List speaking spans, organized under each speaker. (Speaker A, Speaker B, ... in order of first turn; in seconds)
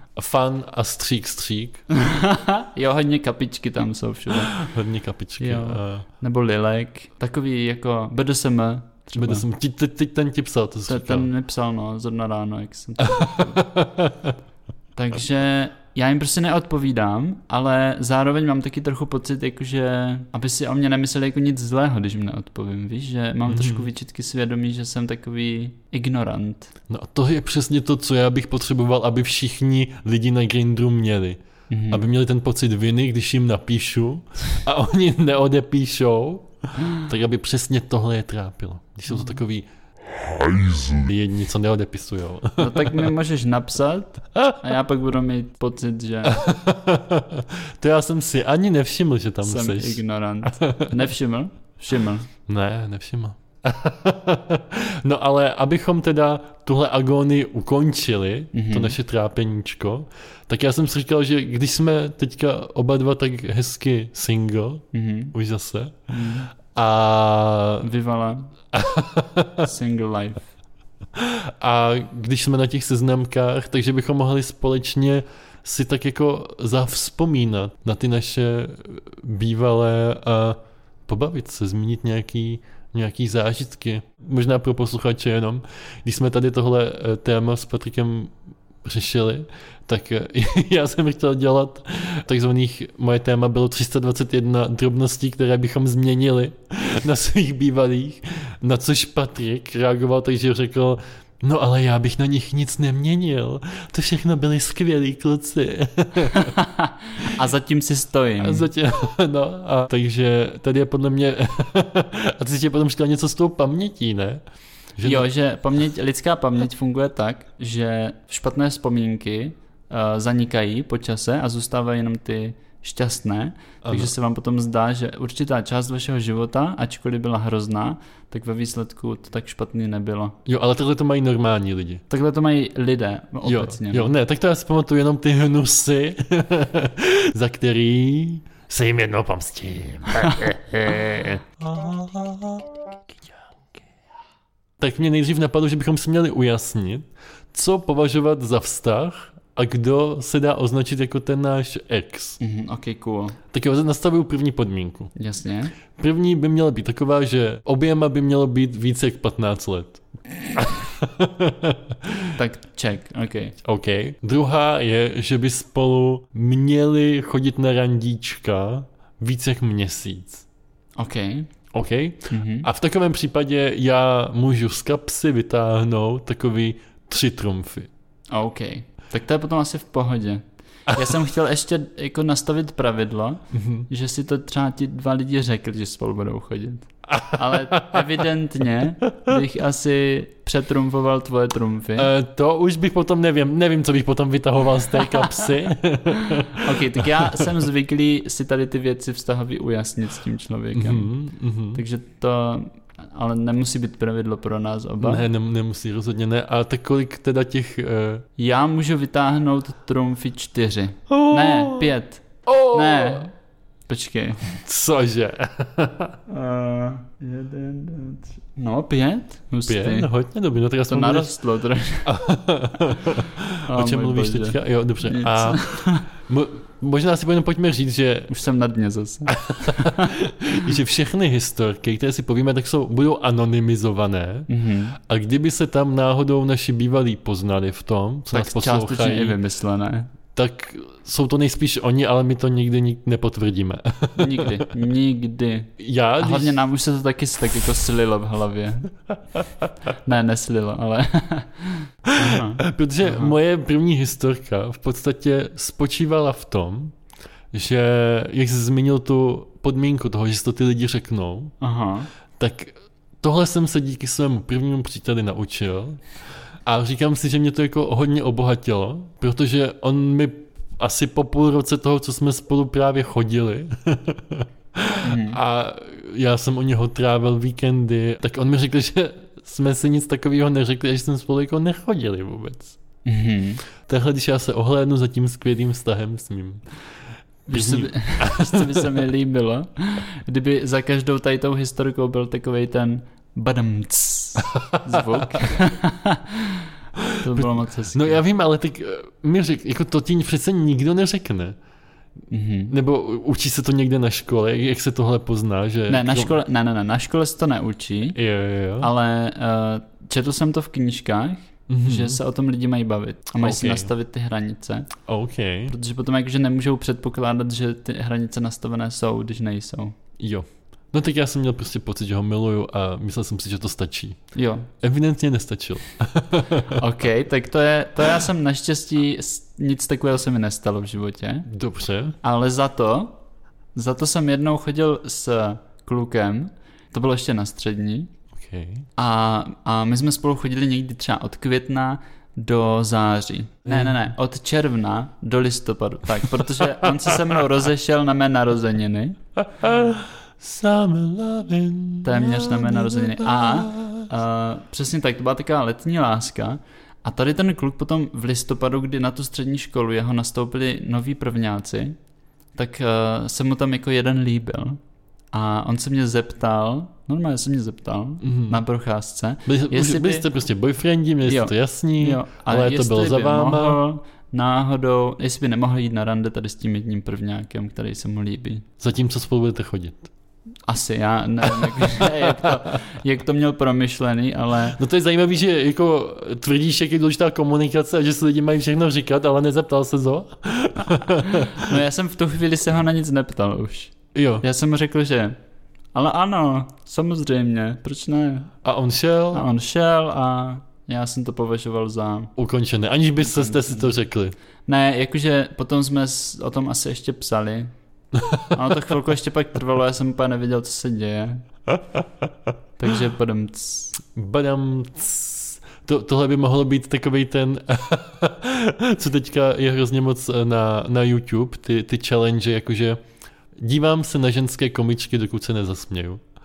Speaker A: 0.2-1.8, 4.4-6.0, 9.2-11.3, 13.0-14.3, 23.5-23.9, 26.9-39.6, 40.5-43.1, 46.2-51.0, 52.5-66.1, 66.7-67.9, 68.7-69.7, 71.2-106.6, 108.4-114.4, 115.0-115.3, 123.8-124.1, 130.4-132.0, 133.4-142.7, 144.8-152.4, 153.5-155.1, 155.9-162.3, 163.6-170.4, 171.7-177.9, 183.5-183.9, 187.1-188.1, 189.1-189.3, 192.0-197.5, 200.7-201.8, 205.0-208.3, 211.1-211.9, 212.4-213.3, 214.6-216.2, 219.7-221.4, 222.0-228.3, 229.3-234.5, 235.0-239.4, 240.3-244.7, 245.8-246.6, 252.1-256.9, 257.5-261.5, 262.3-266.0, 266.6-282.8, 283.8-286.6, 287.5-289.0, 294.4-295.5, 297.0-301.6, 302.7-306.4, 308.1-308.9, 311.7-312.2, 313.4-313.9, 315.1-315.7, 320.2-324.2, 324.8-326.8, 331.5-332.2, 338.3-338.9, 343.6-344.1, 347.0-347.3, 349.4-354.1, 368.2-368.6, 369.4-373.8, 378.8-380.1, 381.8-382.5, 384.7-391.8, 394.1-394.4, 398.6-399.4, 402.4-404.3, 408.1-408.5, 414.0-423.0, 423.6-426.2
Speaker B: 1.9-4.6, 5.4-9.4, 10.9-13.6, 14.9-26.7, 31.7-32.0, 39.1-39.4, 42.6-46.4, 49.4-52.3, 58.5-59.0, 64.9-65.3, 66.1-66.5, 67.8-68.5, 69.6-70.5, 106.3-108.7, 115.0-130.4, 132.1-134.1, 152.4-153.4, 155.1-155.7, 162.3-163.6, 170.9-171.5, 172.3-172.7, 178.3-192.1, 194.9-195.5, 196.2-201.1, 201.7-205.2, 208.4-213.3, 213.9-214.6, 216.3-220.1, 220.9-222.1, 223.7-226.1, 228.3-230.1, 234.5-235.0, 238.3-240.1, 244.2-248.9, 250.0-253.3, 261.6-262.1, 275.0-275.4, 283.0-283.6, 287.5-298.2, 302.3-302.7, 305.9-308.2, 308.8-314.9, 315.7-319.9, 324.3-324.7, 326.7-331.5, 332.2-333.2, 333.7-338.1, 339.0-349.2, 352.0-361.9, 362.5-364.8, 365.3-370.3, 371.2-378.6, 380.6-384.8, 391.2-395.4, 395.9-398.5, 399.3-402.3, 403.2-403.9, 404.6-407.7, 408.5-411.4, 412.8-413.9